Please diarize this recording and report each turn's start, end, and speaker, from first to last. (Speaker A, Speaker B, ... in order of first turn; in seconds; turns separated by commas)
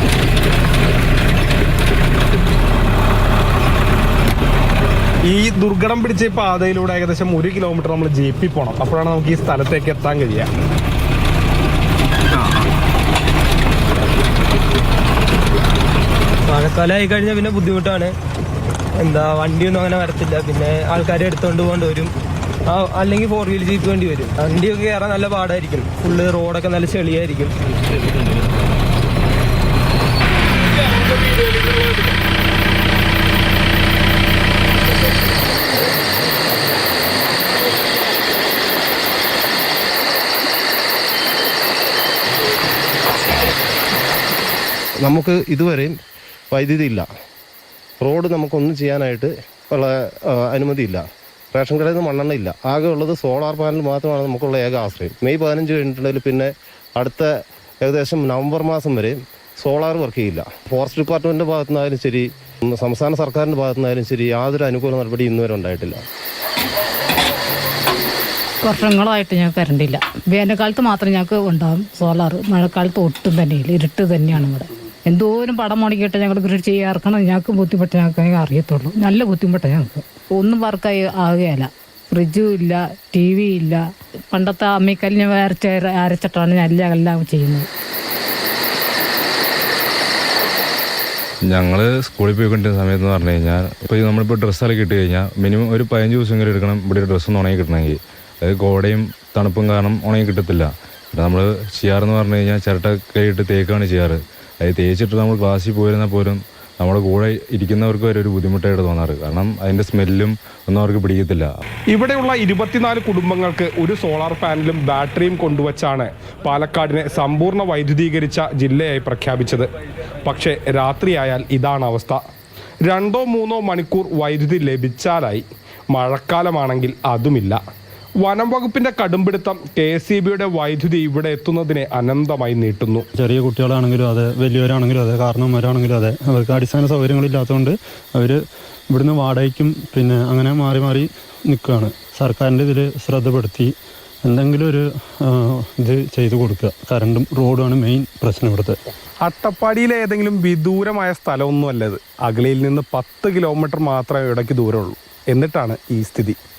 Speaker A: 5.3-10.5, Speaker B: 16.5-18.2, Speaker B: 19.0-22.1, Speaker B: 22.7-27.5, Speaker C: 45.0-45.9, Speaker C: 46.5-47.1, Speaker C: 48.0-57.3, Speaker C: 57.8-66.0, Speaker D: 68.6-87.7, Speaker E: 91.5-111.5, Speaker A: 111.9-119.7, Speaker A: 120.2-122.2, Speaker A: 122.8-127.6, Speaker A: 128.2-133.1, Speaker F: 133.2-148.8, Speaker A: 149.2-156.4